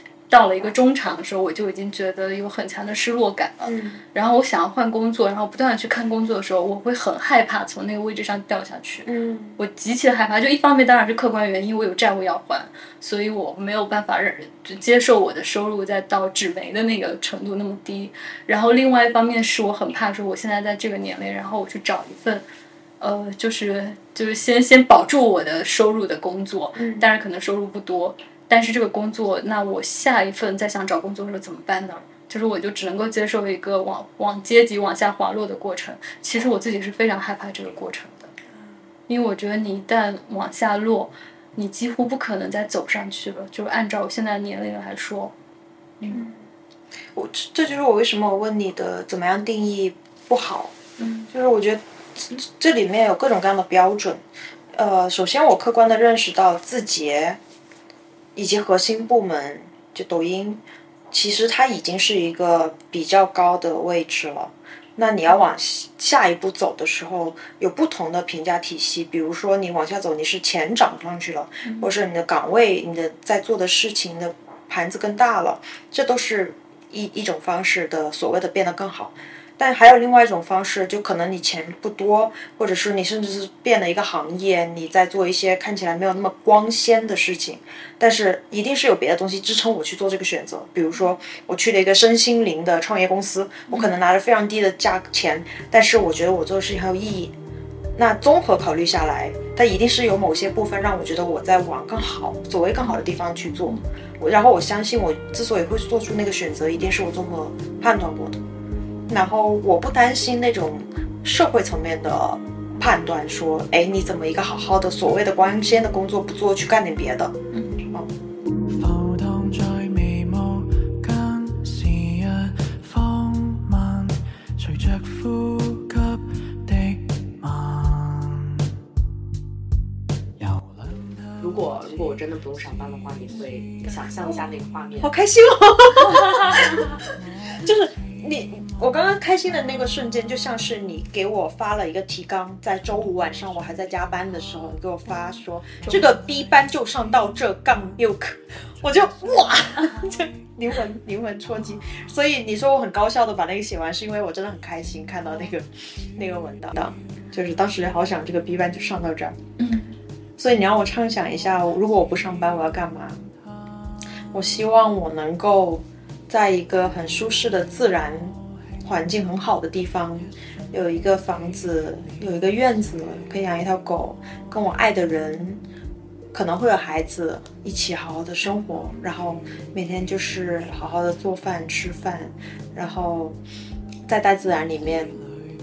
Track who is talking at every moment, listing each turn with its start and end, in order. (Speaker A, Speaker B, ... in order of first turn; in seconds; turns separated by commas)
Speaker A: 0.3-22.4, Speaker B: 3.6-4.0, Speaker B: 9.1-9.6, Speaker A: 23.0-38.3, Speaker B: 26.8-27.1, Speaker A: 39.1-45.3, Speaker A: 46.0-46.2, Speaker B: 46.1-46.4, Speaker B: 47.1-50.7, Speaker A: 51.0-51.3, Speaker B: 51.3-54.2, Speaker B: 54.7-57.4, Speaker B: 58.4-60.6, Speaker B: 61.1-97.3, Speaker A: 71.6-71.9, Speaker B: 98.0-108.4, Speaker B: 109.1-117.3, Speaker A: 117.5-117.8, Speaker C: 131.4-135.1, Speaker B: 135.0-159.4, Speaker A: 159.6-159.9, Speaker B: 160.4-163.2, Speaker B: 164.3-175.6, Speaker B: 176.3-183.4, Speaker B: 184.1-185.2